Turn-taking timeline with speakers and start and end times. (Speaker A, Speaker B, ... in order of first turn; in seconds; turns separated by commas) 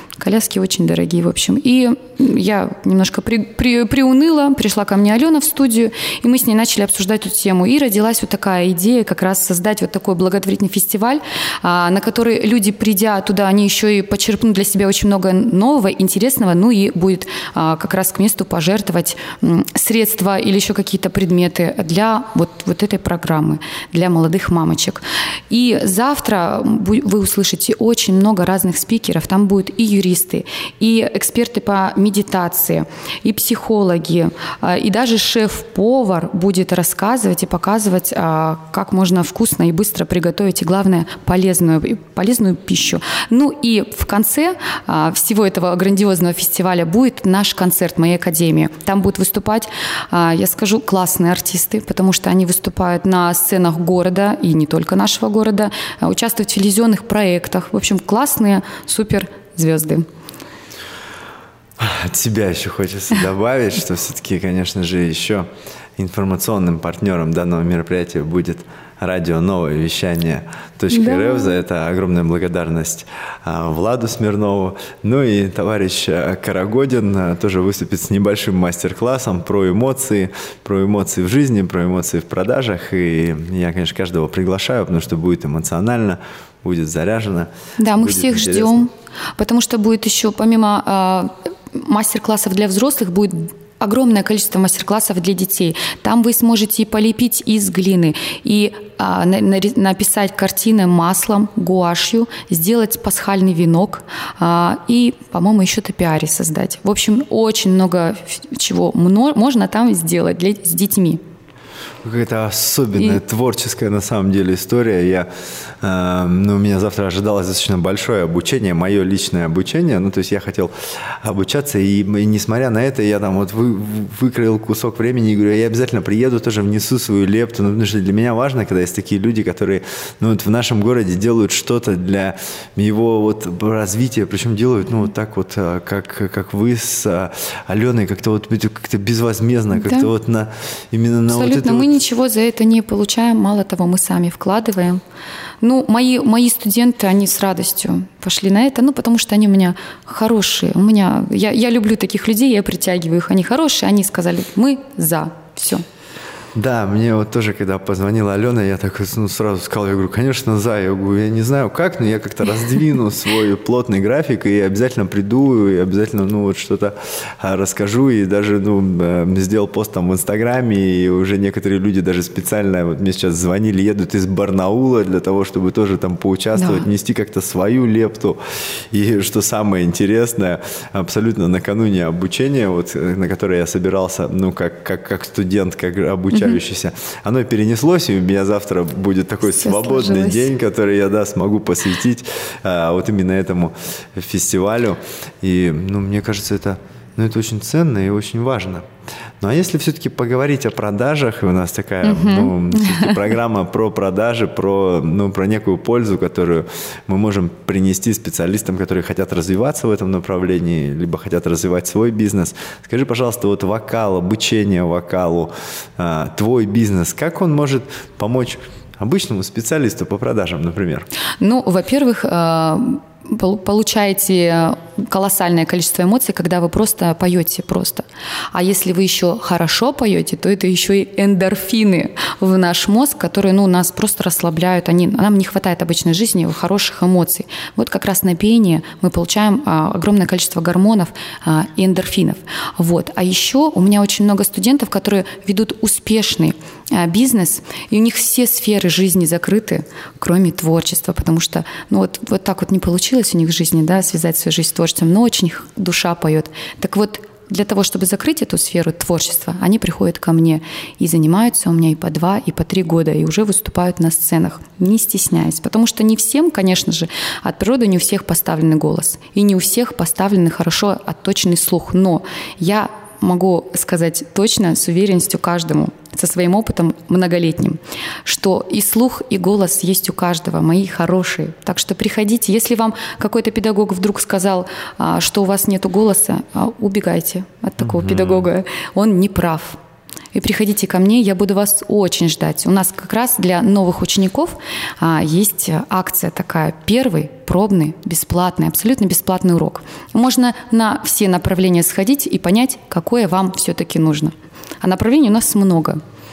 Speaker A: 0.2-60.0, Speaker B: 61.8-88.9, Speaker A: 70.9-71.6, Speaker A: 87.8-111.2, Speaker B: 112.0-115.3, Speaker A: 113.0-113.2, Speaker B: 115.8-141.9, Speaker A: 139.8-140.1, Speaker A: 141.3-145.0, Speaker A: 145.6-155.8, Speaker B: 156.6-178.4, Speaker A: 176.6-176.9, Speaker B: 178.9-198.9, Speaker A: 189.5-190.5, Speaker B: 199.4-221.1, Speaker A: 202.0-203.2, Speaker A: 221.4-289.8, Speaker B: 287.8-288.5, Speaker A: 290.3-306.0